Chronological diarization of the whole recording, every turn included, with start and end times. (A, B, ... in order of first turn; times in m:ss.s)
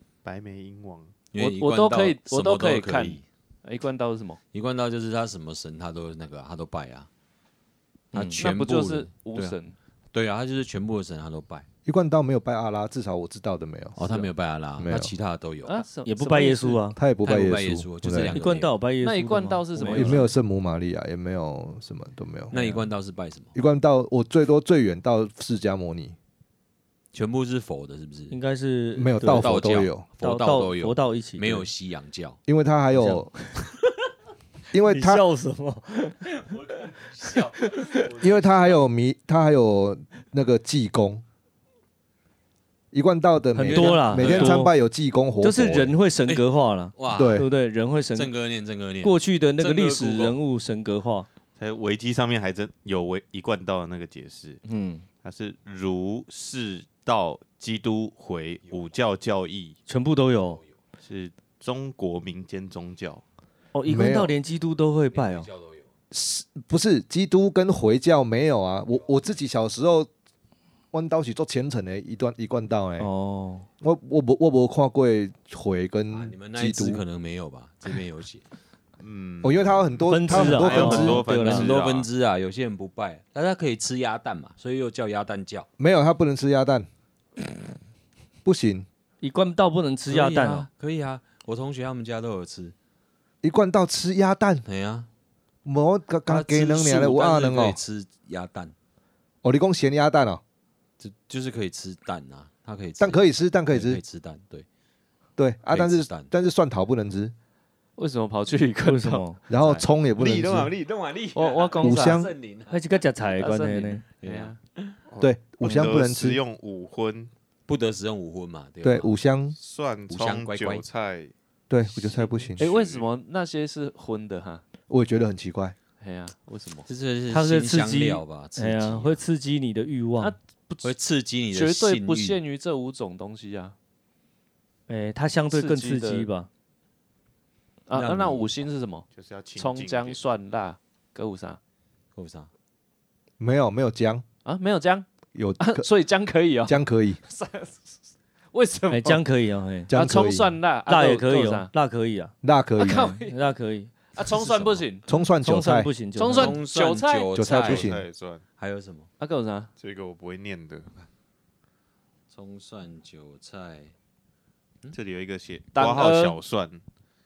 0:00.2-0:01.1 A
0:01.3-0:03.2 B
0:01.4-0:04.4 C
0:04.5-0:07.1 B
0:08.1-0:09.6 B
0:08.1-0:08.4 D
0:08.4-0:09.7 C
0:10.1-0:11.6 B
0:11.8-0:14.1 E
0:14.0-0:15.8 B
0:14.8-0:15.1 E
0:15.6-0:16.8 C
0:16.0-0:17.0 D
0:17.0-0:18.4 E
0:17.2-0:18.7 B
0:18.3-0:20.3 D
0:19.0-0:20.3 C
0:19.8-0:22.7 E
0:22.5-0:23.5 B
0:23.5-0:26.1 E
0:27.1-0:28.3 B
0:28.3-0:29.6 D
0:29.0-0:30.0 E
0:29.2-0:32.4 B
0:30.2-0:31.7 D
0:32.5-0:33.3 E
0:32.9-0:33.2 D
0:34.7-0:35.2 E
0:34.8-0:36.3 D
0:36.4-0:38.3 B
0:37.3-0:38.0 D
0:38.2-0:41.2 E
0:42.9-0:45.9 E
0:43.5-0:44.7 D
0:43.7-0:44.7 B
0:45.4-0:48.3 D
0:47.0-0:47.5 B
0:47.1-0:47.5 E
0:48.1-0:50.4 B
0:49.0-0:51.3 D
0:51.6-0:54.6 A
0:54.6-0:55.0 D
0:55.2-0:59.8 A
0:59.9-1:00.6 D
1:01.0-1:03.2 A
1:03.7-1:05.5 D
1:03.9-1:04.3 E
1:05.1-1:05.8 B
1:06.1-1:10.1 E
1:10.9-1:13.1 E
1:13.0-1:13.7 D
1:13.8-1:17.0 E
1:16.1-1:18.4 B
1:19.0-1:22.1 A
1:19.4-1:21.2 E
1:20.1-1:21.7 D
1:20.3-1:25.7 B
1:25.8-1:26.9 E
1:28.4-1:28.9 E
1:29.2-1:30.7 D
1:30.1-1:32.7 B
1:33.4-1:34.6 E
1:34.6-1:35.1 B
1:35.6-1:37.8 E
1:36.2-1:38.7 B
1:39.4-1:40.4 E
1:41.0-1:44.6 B
1:43.0-1:44.0 E
1:45.4-1:47.3 E
1:45.7-1:46.3 B
1:48.0-1:49.2 C
1:48.8-1:49.4 D
1:49.5-1:50.7 E
1:50.2-1:52.8 B
1:51.3-1:52.2 C
1:51.8-1:52.3 E
1:52.7-1:54.0 D
1:53.4-1:54.6 C
1:54.2-1:55.0 B
1:55.1-1:57.3 A
1:55.2-1:56.4 E
1:57.7-1:59.1 B
1:58.8-1:59.6 E
1:59.5-2:01.3 A
2:00.1-2:00.8 B
2:01.7-2:02.6 E
2:02.6-2:03.1 A
2:02.6-2:04.6 C
2:04.9-2:05.7 E
2:06.0-2:06.9 C
2:06.9-2:09.2 B
2:07.3-2:10.3 D
2:10.2-2:10.9 C
2:10.8-2:12.4 B
2:11.5-2:13.7 C
2:14.9-2:16.5 D
2:15.5-2:16.3 C
2:17.9-2:21.6 C
2:17.9-2:18.5 B
2:19.1-2:20.2 A
2:22.1-2:22.5 B
2:23.4-2:24.2 E
2:24.4-2:25.0 C
2:25.3-2:25.9 E
2:25.6-2:28.0 C
2:26.6-2:27.2 E
2:28.5-2:29.2 C
2:28.9-2:29.9 D
2:29.9-2:30.6 E
2:29.9-2:31.7 C
2:30.9-2:32.3 D
2:32.4-2:33.2 E
2:32.8-2:33.5 C
2:32.9-2:33.9 D
2:34.1-2:35.0 C
2:35.0-2:35.9 E
2:35.4-2:36.6 D
2:36.2-2:37.4 C
2:36.3-2:37.9 B
2:37.3-2:38.0 E
2:37.5-2:38.4 A
2:38.6-2:39.1 B
2:39.2-2:39.7 C
2:39.8-2:40.9 A
2:42.3-2:43.9 B
2:44.9-2:46.8 A
2:45.7-2:46.4 C